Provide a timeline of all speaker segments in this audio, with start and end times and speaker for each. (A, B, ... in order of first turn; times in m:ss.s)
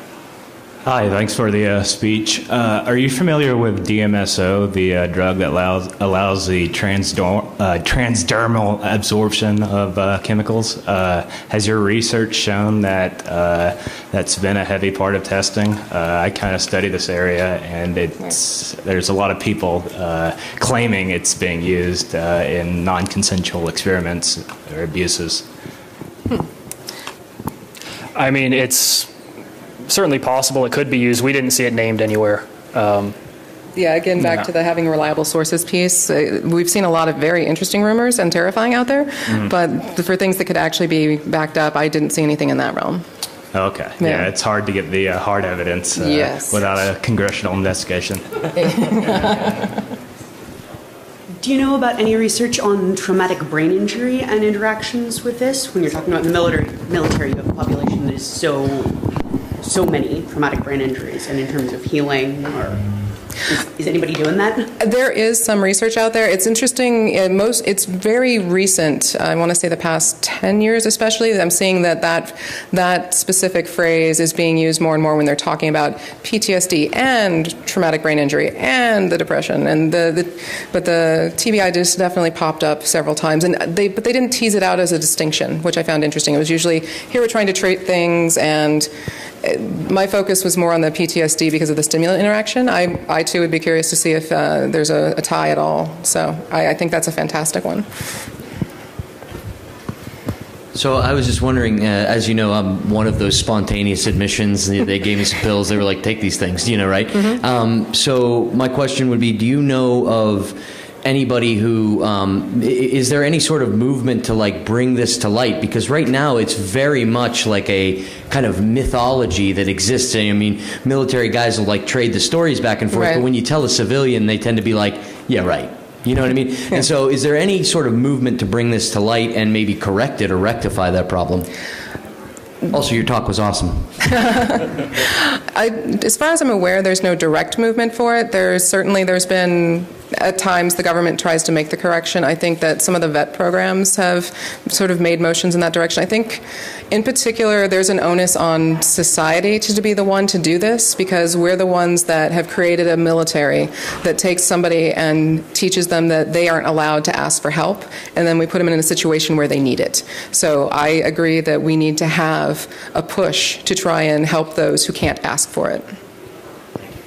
0:00.8-0:25.4 A
0:28.1-0:29.1 B
0:29.9-0:33.2 B
0:33.8-0:43.0 C
0:34.2-0:34.4 A
0:43.5-0:48.9 A
0:44.0-0:44.3 C
0:46.0-0:46.6 C
0:48.9-0:49.2 C
0:51.4-1:02.9 D
1:03.4-1:04.7 D
1:04.8-1:28.9 C
1:29.4-1:37.9 C
1:40.7-2:11.5 E
2:02.9-2:03.2 C
2:12.7-2:14.0 E
2:14.1-2:45.9 C